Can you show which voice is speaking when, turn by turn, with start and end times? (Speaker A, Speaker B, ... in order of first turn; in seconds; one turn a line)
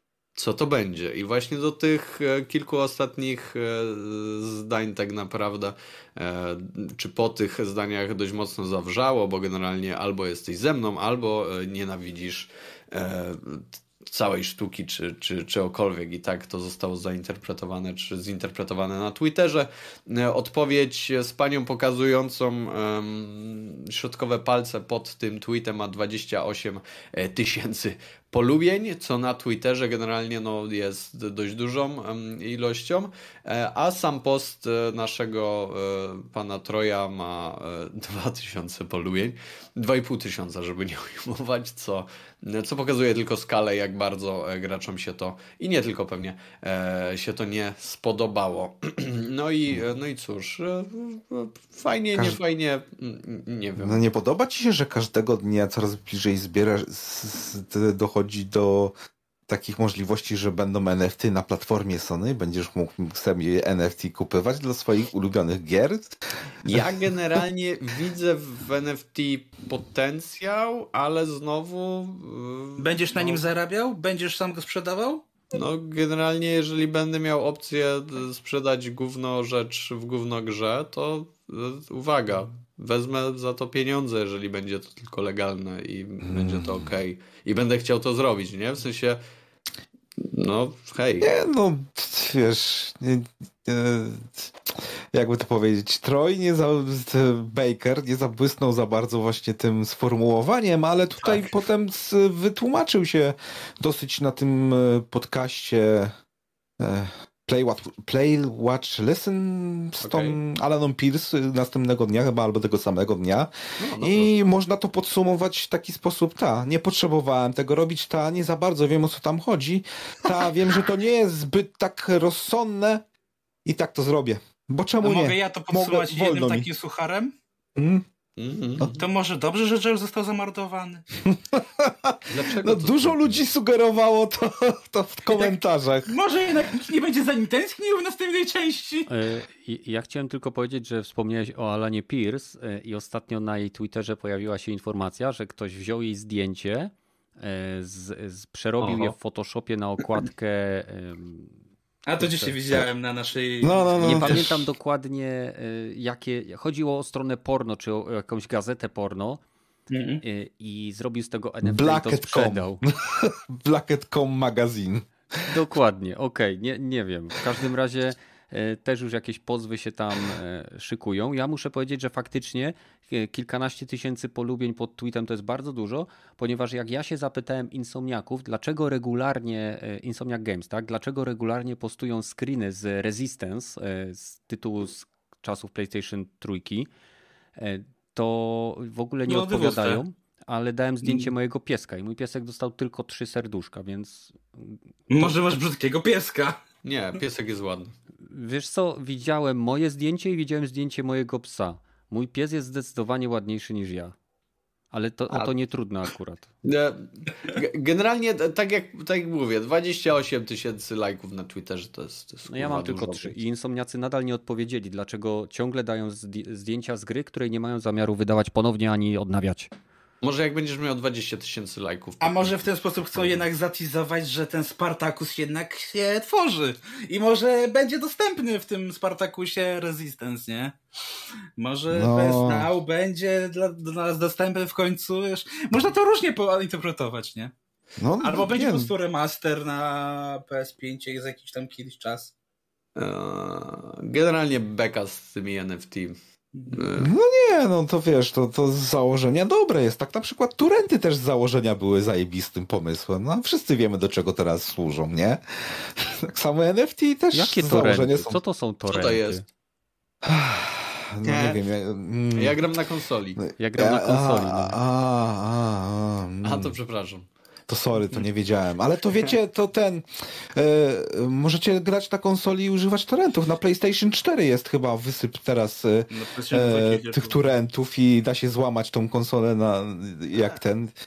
Speaker A: 0.4-54.1
Speaker B: 53.8-58.9
Speaker B: 59.5-66.2
Speaker A: 66.7-73.4
Speaker C: 72.8-75.2
Speaker A: 75.5-89.2
Speaker B: 86.2-86.9
Speaker A: 90.2-91.3
Speaker B: 91.2-94.5
Speaker B: 95.1-106.1
Speaker A: 101.2-101.5
Speaker B: 106.8-123.0
Speaker A: 110.0-110.4
Speaker A: 113.8-114.5
Speaker B: 123.7-126.7
Speaker C: 125.0-127.3
Speaker B: 127.8-128.0
Speaker A: 128.4-129.0
Speaker C: 128.9-131.1
Speaker B: 131.2-136.1
Speaker A: 132.3-133.5
Speaker C: 136.1-139.1
Speaker D: 139.1-151.6
Speaker A: 148.8-149.1
Speaker C: 152.1-154.4
Speaker D: 152.2-152.6
Speaker B: 153.6-154.7
Speaker D: 154.0-159.4
Speaker C: 159.9-160.2
Speaker D: 160.2-162.8
Speaker B: 161.6-165.4
Speaker D: 165.5-186.9
Speaker D: 187.6-195.4
Speaker C: 189.3-190.0
Speaker C: 191.0-191.3
Speaker C: 195.1-196.6
Speaker A: 196.8-197.9
Speaker D: 198.3-204.1
Speaker D: 204.9-206.5
Speaker A: 206.6-213.4
Speaker D: 212.5-219.7
Speaker A: 220.2-222.6
Speaker C: 222.2-230.8
Speaker C: 231.6-237.5
Speaker B: 231.9-232.7
Speaker B: 238.0-238.9
Speaker C: 238.2-242.3
Speaker A: 243.0-246.2
Speaker A: 246.7-247.1
Speaker B: 247.0-258.4
Speaker D: 257.3-259.4
Speaker A: 258.9-259.4
Speaker B: 260.2-262.6
Speaker A: 261.2-261.6
Speaker A: 262.3-263.4
Speaker B: 263.4-266.7
Speaker D: 263.6-264.8
Speaker A: 266.4-267.3
Speaker B: 267.7-280.9
Speaker C: 276.1-277.4